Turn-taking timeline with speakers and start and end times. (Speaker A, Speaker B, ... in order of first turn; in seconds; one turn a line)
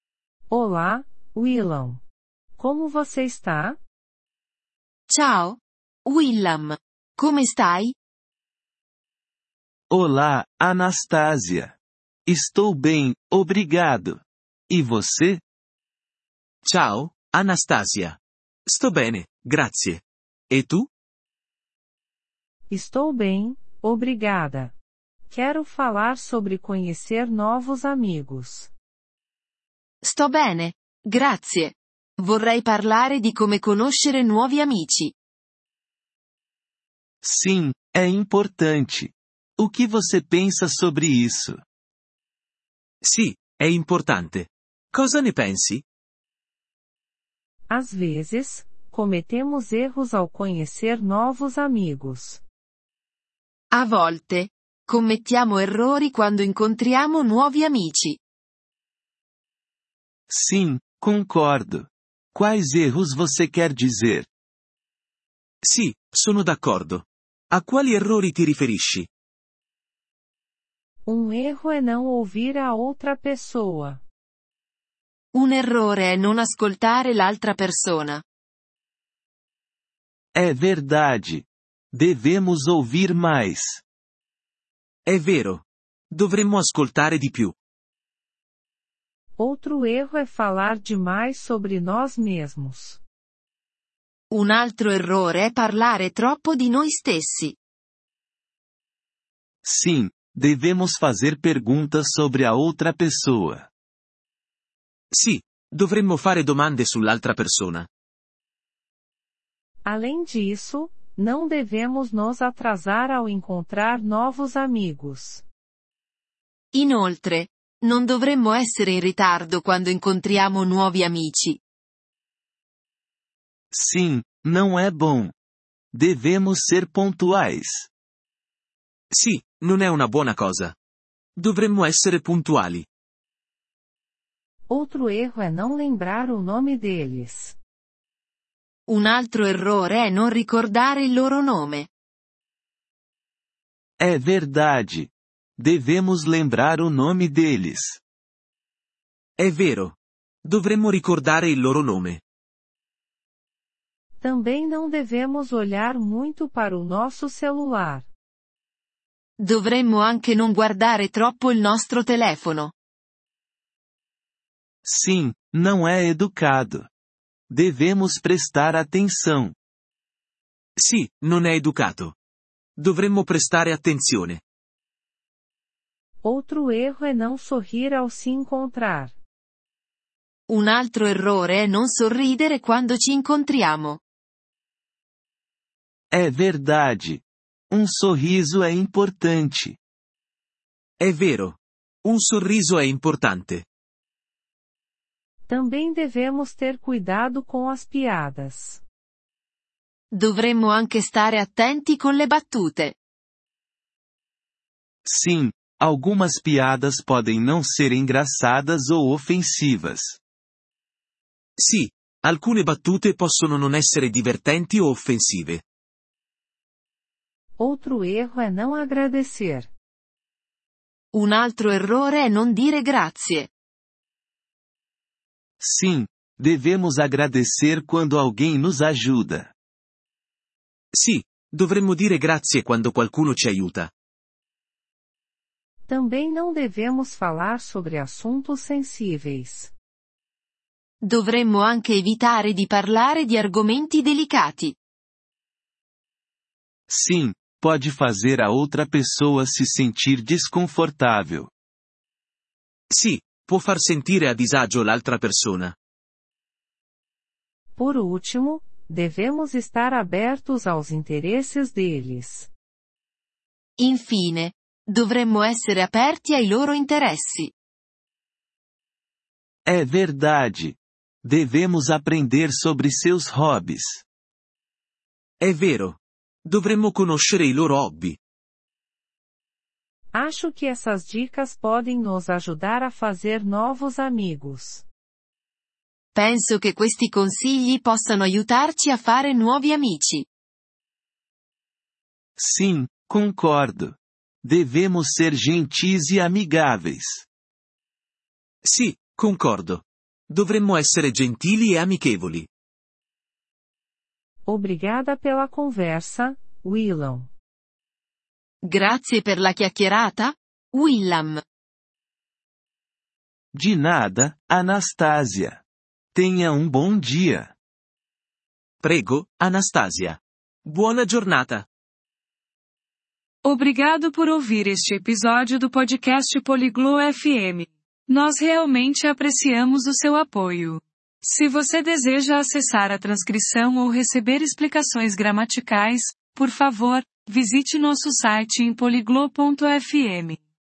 Speaker A: 0.5-2.0
Speaker A: 2.6-3.8
Speaker B: 5.1-8.0
Speaker C: 9.9-11.8
Speaker C: 12.3-15.4
Speaker D: 16.6-20.9
Speaker A: 22.7-24.7
Speaker A: 25.3-28.7
Speaker B: 30.0-35.1
Speaker C: 37.2-41.6
Speaker D: 43.0-45.8
Speaker A: 47.7-52.4
Speaker B: 53.7-58.2
Speaker C: 60.3-64.3
Speaker D: 65.6-69.1
Speaker A: 71.1-74.0
Speaker B: 75.3-78.2
Speaker C: 80.3-83.8
Speaker D: 85.1-87.5
Speaker A: 89.4-93.0
Speaker B: 94.3-97.6
Speaker C: 99.6-103.7
Speaker D: 105.1-107.9
Speaker A: 109.8-115.5
Speaker B: 116.7-121.6
Speaker C: 123.7-125.3
Speaker C: 125.9-127.9
Speaker D: 129.1-130.8
Speaker D: 131.4-132.9
Speaker A: 134.7-137.6
Speaker B: 138.9-141.9
Speaker C: 144.0-148.0
Speaker D: 149.4-152.2
Speaker A: 154.2-158.1
Speaker B: 159.4-162.7
Speaker C: 164.8-166.9
Speaker C: 167.5-169.6
Speaker D: 170.8-172.2
Speaker D: 172.8-174.4
Speaker A: 176.2-179.2
Speaker B: 180.5-184.0
Speaker C: 186.1-189.8
Speaker D: 191.0-193.7
Speaker A: 195.5-198.8
Speaker B: 200.1-203.0
Speaker C: 205.1-210.2
Speaker D: 211.6-215.6
Speaker A: 217.6-219.7
Speaker B: 221.1-223.5
Speaker C: 225.6-229.5
Speaker D: 230.9-233.9
Speaker A: 235.9-239.7
Speaker B: 241.0-244.8
Speaker C: 246.9-251.5
Speaker D: 252.9-255.8
Speaker A: 257.8-262.5
Speaker B: 263.8-267.5
Speaker C: 269.7-274.0
Speaker D: 275.4-278.2
Speaker A: 280.1-284.9
Speaker B: 286.1-290.3
Speaker C: 292.4-297.3
Speaker D: 298.6-302.5
Speaker A: 304.5-307.3
Speaker B: 308.6-311.4
Speaker C: 313.5-315.6
Speaker C: 316.1-317.5
Speaker D: 318.8-321.7
Speaker E: 323.4-340.4